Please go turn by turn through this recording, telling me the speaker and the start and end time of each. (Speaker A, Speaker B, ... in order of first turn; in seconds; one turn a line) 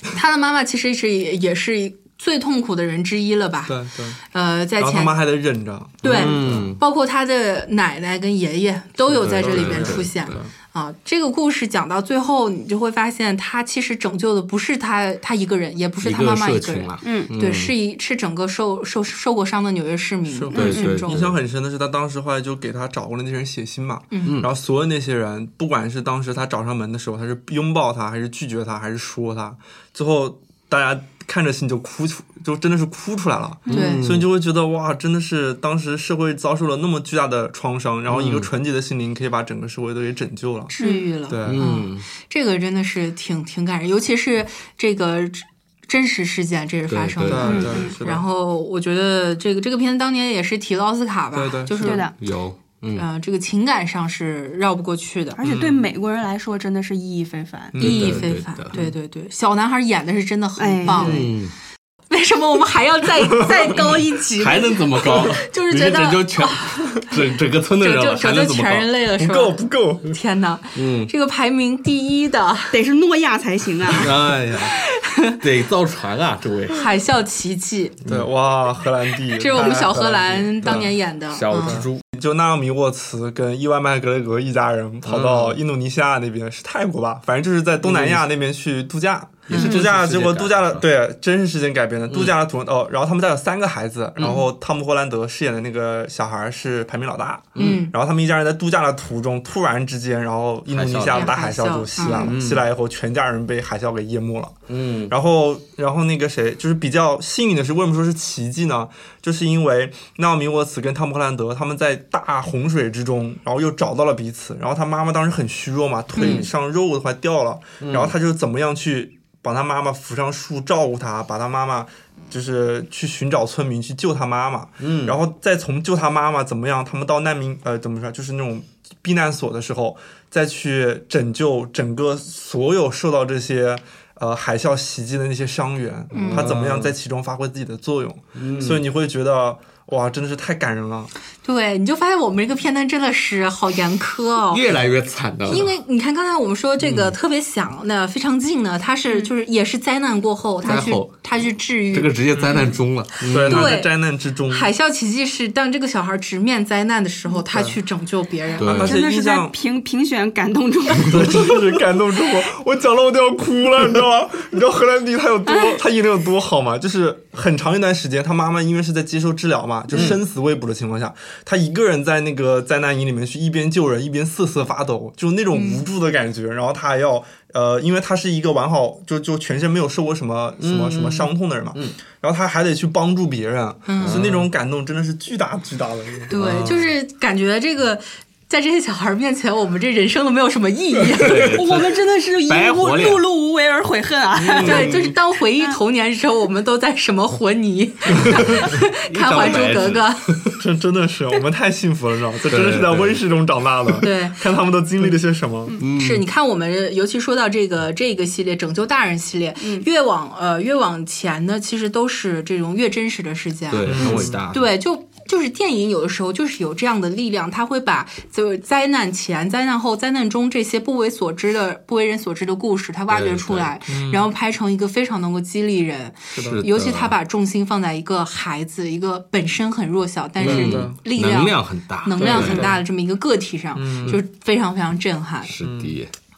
Speaker A: 0.1-5.2
Speaker B: 3.7-4.2
Speaker B: 4.8-6.7
Speaker A: 6.0-21.2
Speaker C: 6.0-6.8
Speaker B: 9.1-10.5
Speaker C: 9.2-10.4
Speaker C: 16.0-17.7
Speaker D: 17.0-17.3
Speaker B: 20.4-40.7
Speaker C: 20.5-21.4
Speaker D: 20.5-20.9
Speaker A: 24.1-24.4
Speaker A: 33.7-34.1
Speaker C: 33.7-34.3
Speaker C: 38.1-38.5
Speaker A: 40.7-52.1
Speaker D: 40.8-41.1
Speaker B: 41.3-41.7
Speaker C: 41.5-42.0
Speaker C: 46.9-47.9
Speaker B: 47.2-48.2
Speaker D: 47.5-47.9
Speaker B: 51.3-52.0
Speaker D: 51.8-52.1
Speaker C: 52.2-53.0
Speaker A: 53.0-55.4
Speaker D: 55.4-57.8
Speaker B: 55.4-55.8
Speaker B: 57.7-58.2
Speaker C: 57.8-58.8
Speaker A: 57.8-61.3
Speaker D: 60.6-61.3
Speaker C: 60.9-61.5
Speaker A: 62.1-67.1
Speaker C: 64.4-68.9
Speaker A: 67.8-72.7
Speaker B: 69.2-70.1
Speaker C: 70.8-71.1
Speaker D: 72.7-74.2
Speaker C: 73.9-74.8
Speaker A: 74.5-75.4
Speaker C: 75.4-76.9
Speaker A: 76.7-78.0
Speaker B: 78.0-80.9
Speaker A: 79.3-81.8
Speaker C: 80.6-82.0
Speaker B: 81.5-141.1
Speaker C: 85.0-85.6
Speaker C: 87.8-88.2
Speaker C: 89.5-90.9
Speaker A: 89.5-89.8
Speaker C: 92.1-92.3
Speaker A: 97.6-97.9
Speaker C: 100.7-101.4
Speaker A: 101.1-102.3
Speaker C: 102.1-102.6
Speaker C: 104.7-105.1
Speaker C: 116.2-116.5
Speaker C: 117.8-118.1
Speaker C: 124.8-125.2
Speaker A: 136.1-136.5
Speaker C: 136.2-136.9
Speaker C: 138.4-138.8
Speaker A: 141.4-144.7
Speaker C: 144.5-145.7
Speaker A: 145.4-152.7
Speaker C: 146.8-147.1
Speaker C: 150.6-151.1
Speaker C: 151.9-153.8
Speaker B: 153.2-154.7
Speaker A: 153.4-153.9
Speaker A: 154.5-158.7
Speaker B: 157.4-157.8
Speaker C: 158.6-159.0
Speaker B: 158.6-159.6
Speaker D: 158.8-161.5
Speaker B: 160.9-186.4
Speaker D: 165.5-165.8
Speaker A: 175.5-175.8
Speaker C: 180.6-181.9
Speaker A: 183.9-184.2
Speaker C: 184.0-184.5
Speaker A: 186.3-191.6
Speaker C: 186.3-186.9
Speaker C: 191.1-193.2
Speaker D: 191.3-195.1
Speaker B: 194.4-195.1
Speaker C: 194.6-195.0
Speaker A: 194.6-200.4
Speaker C: 198.2-200.6
Speaker B: 200.6-205.8
Speaker C: 202.5-203.2
Speaker A: 204.0-204.4
Speaker C: 205.8-206.2
Speaker A: 205.9-235.6
Speaker D: 209.6-209.9
Speaker C: 213.7-214.7
Speaker B: 213.9-214.4
Speaker C: 223.1-223.8
Speaker B: 223.9-224.3
Speaker B: 226.3-226.6
Speaker C: 226.4-227.1
Speaker B: 230.4-230.9
Speaker C: 230.4-232.7
Speaker B: 232.2-232.8
Speaker B: 233.7-234.2
Speaker C: 235.4-236.1
Speaker B: 235.6-235.9